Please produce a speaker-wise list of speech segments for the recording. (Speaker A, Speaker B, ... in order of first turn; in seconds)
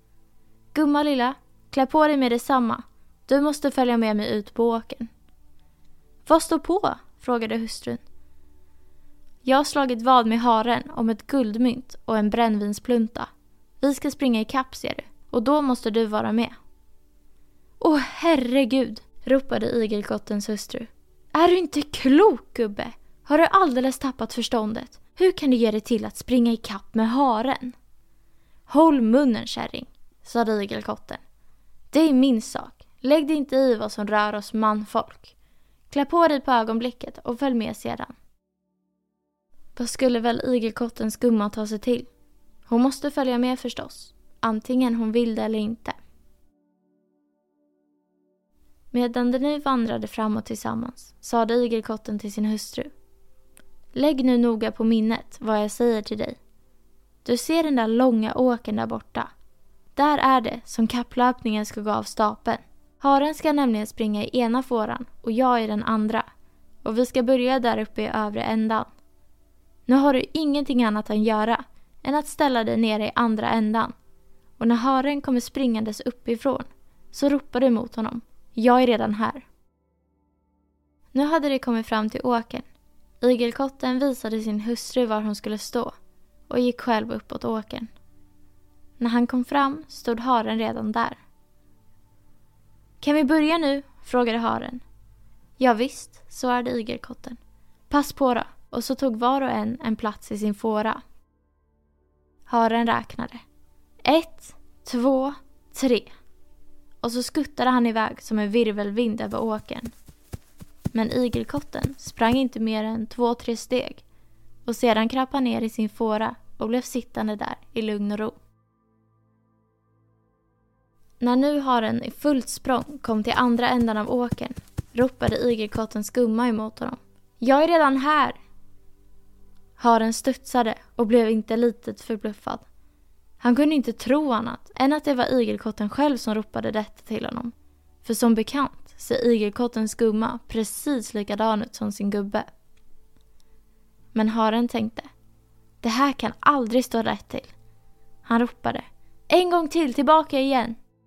Speaker A: 0.7-5.1, 6.2-8.0, 9.4-13.3, 13.8-16.5, 17.8-27.7, 28.7-31.2, 31.9-35.3, 35.9-38.1, 39.8-42.1, 42.7-45.9, 48.9-52.9, 53.9-56.4, 57.2-59.3, 59.9-66.2, 66.8-68.9, 69.9-73.9, 74.6-79.4, 81.1-82.7, 83.2-85.9, 86.5-87.9, 89.0-91.2, 93.0-94.8, 95.6-97.4, 97.9-101.0, 102.5-103.4, 104.0-106.1, 107.0-109.9, 110.9-114.0, 114.7-118.3, 121.2-128.3, 129.8-132.6, 133.4-137.5, 138.0-142.4, 144.1-145.1, 145.8-147.5, 148.2-150.7